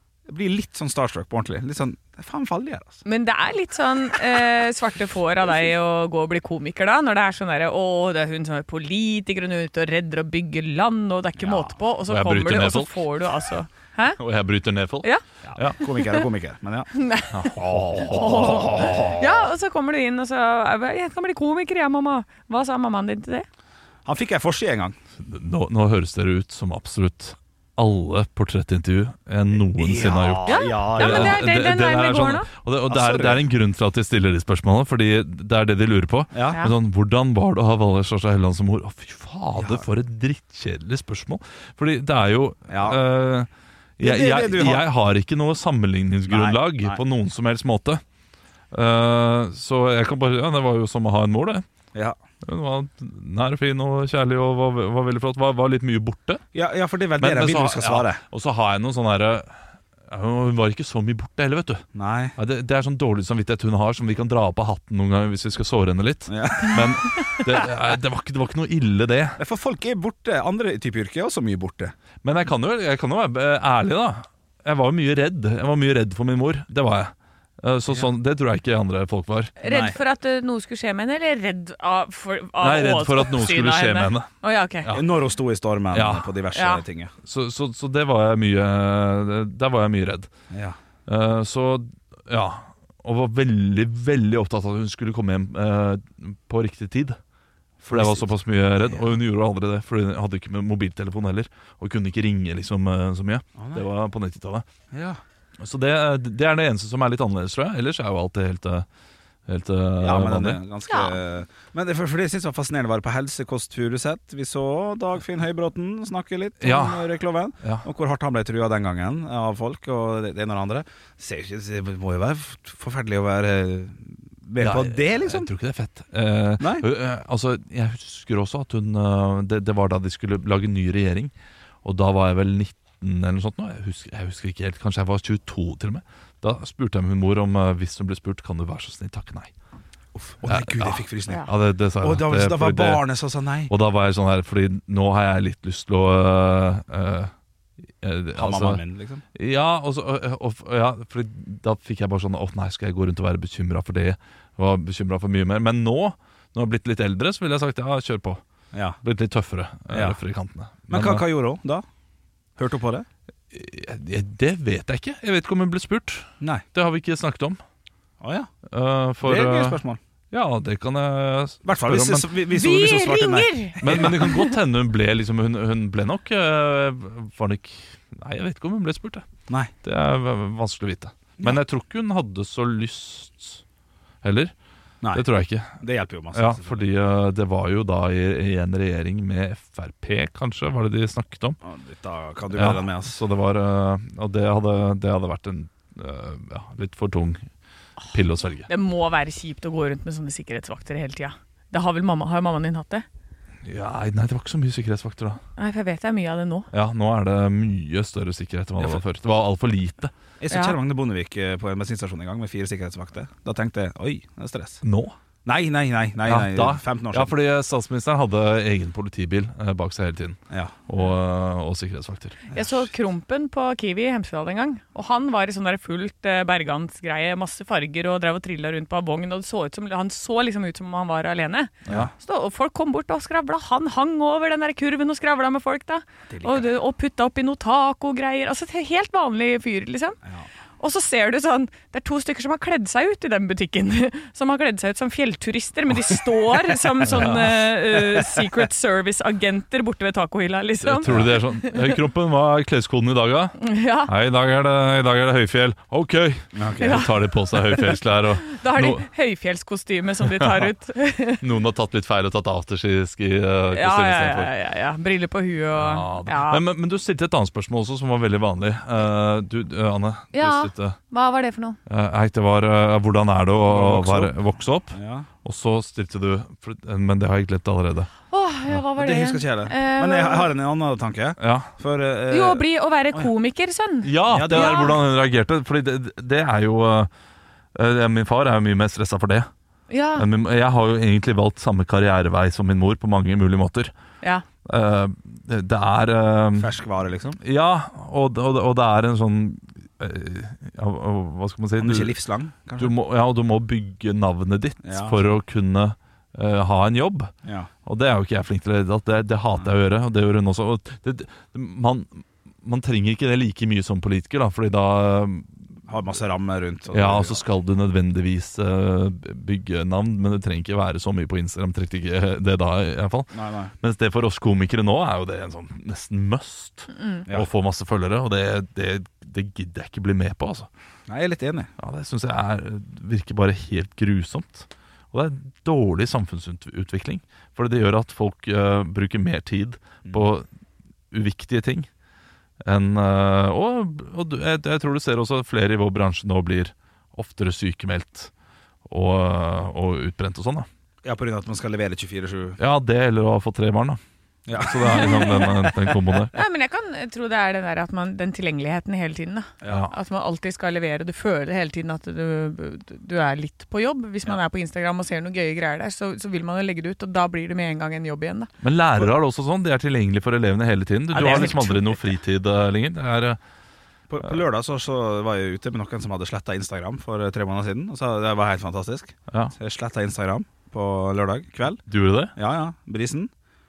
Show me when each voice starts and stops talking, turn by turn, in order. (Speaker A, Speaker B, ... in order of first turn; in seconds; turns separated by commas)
Speaker A: 0.3-3.0, Speaker B: 3.0-14.2, Speaker A: 11.4-11.7, Speaker C: 12.1-13.0, Speaker C: 14.2-15.8, Speaker A: 15.4-16.9, Speaker B: 16.9-17.5, Speaker C: 17.3-19.0, Speaker A: 17.6-19.4, Speaker B: 18.1-23.4, Speaker A: 24.1-24.9, Speaker C: 25.2-48.0, Speaker A: 29.6-31.4, Speaker B: 30.4-32.5, Speaker A: 32.9-33.4, Speaker A: 36.3-36.6, Speaker A: 39.5-39.9, Speaker A: 42.7-43.0, Speaker A: 44.0-44.9, Speaker A: 46.3-47.0, Speaker C: 48.7-51.6, Speaker C: 52.4-56.4, Speaker A: 56.5-58.2, Speaker C: 57.2-61.8, Speaker A: 61.9-62.3, Speaker C: 62.4-69.4, Speaker A: 66.3-67.0, Speaker A: 69.4-71.9, Speaker C: 72.2-79.5, Speaker B: 79.6-84.9, Speaker A: 79.6-80.0, Speaker C: 82.6-84.3, Speaker A: 84.9-87.1, Speaker C: 85.9-86.3, Speaker B: 86.5-86.8, Speaker C: 87.2-90.3, Speaker A: 90.5-90.8, Speaker C: 91.1-97.2, Speaker A: 97.8-98.3, Speaker C: 97.9-104.6, Speaker A: 98.8-99.1, Speaker A: 103.6-103.8, Speaker A: 104.9-105.2, Speaker C: 105.6-108.8, Speaker C: 109.5-110.6, Speaker A: 110.0-125.5, Speaker B: 110.9-111.2, Speaker C: 116.6-117.8, Speaker C: 124.6-131.3, Speaker A: 126.6-126.9, Speaker C: 131.8-139.5, Speaker A: 140.1-143.7, Speaker C: 140.4-143.0, Speaker C: 143.7-147.3, Speaker C: 148.0-148.8, Speaker A: 148.3-149.2, Speaker C: 149.3-158.4, Speaker A: 158.7-159.0, Speaker C: 159.0-161.2, Speaker A: 159.9-160.2, Speaker A: 160.9-161.8, Speaker A: 162.6-163.1, Speaker C: 163.5-167.6, Speaker A: 168.2-168.5, Speaker C: 168.7-172.3, Speaker A: 169.2-170.0, Speaker A: 171.6-174.3, Speaker B: 172.5-174.5, Speaker C: 173.8-179.2, Speaker C: 179.8-183.6, Speaker C: 184.2-184.5, Speaker C: 185.1-185.8, Speaker A: 185.8-186.9, Speaker C: 186.3-191.6, Speaker A: 191.6-193.2, Speaker C: 192.5-197.4, Speaker C: 198.1-198.7, Speaker B: 198.7-203.1, Speaker C: 203.6-205.4, Speaker B: 205.6-206.7, Speaker C: 206.7-210.1, Speaker A: 210.4-214.8, Speaker B: 210.5-210.8, Speaker C: 214.8-215.2, Speaker A: 215.4-217.3, Speaker C: 216.2-222.6, Speaker B: 222.5-240.2, Speaker C: 231.8-232.1, Speaker A: 236.3-236.7, Speaker B: 240.8-251.9, Speaker C: 247.0-247.6, Speaker C: 250.8-259.1, Speaker A: 251.1-251.3, Speaker B: 253.6-254.1, Speaker A: 256.5-257.1, Speaker B: 256.8-257.9, Speaker B: 258.5-261.4, Speaker C: 260.4-260.7, Speaker C: 261.4-264.5, Speaker B: 263.7-266.6, Speaker C: 265.7-271.0, Speaker B: 270.3-271.8, Speaker C: 271.9-278.1, Speaker A: 273.7-274.3, Speaker A: 274.9-275.3, Speaker B: 278.3-280.5, Speaker A: 278.9-282.6, Speaker C: 281.4-281.7, Speaker B: 282.3-284.9, Speaker C: 284.0-287.1, Speaker A: 284.2-285.0, Speaker C: 287.7-289.5, Speaker B: 289.9-290.2, Speaker C: 290.1-293.9, Speaker C: 294.6-296.7, Speaker A: 296.5-297.4, Speaker C: 297.4-302.1, Speaker A: 301.8-302.9, Speaker C: 302.8-307.3, Speaker A: 304.8-305.2, Speaker A: 307.4-307.7, Speaker C: 307.9-315.5, Speaker A: 315.9-317.4, Speaker C: 316.9-330.7, Speaker A: 323.3-323.7, Speaker B: 326.9-327.2, Speaker A: 331.1-331.7, Speaker C: 331.8-340.4, Speaker C: 341.1-341.9, Speaker C: 342.6-348.3, Speaker C: 348.9-350.7, Speaker A: 351.0-352.6, Speaker C: 352.6-354.0, Speaker A: 354.5-355.9, Speaker C: 354.6-356.3, Speaker B: 354.9-355.4, Speaker B: 356.3-368.5, Speaker C: 359.6-359.9, Speaker C: 368.6-373.4, Speaker B: 371.1-372.1, Speaker A: 374.1-381.8, Speaker C: 381.9-382.3, Speaker A: 382.4-383.3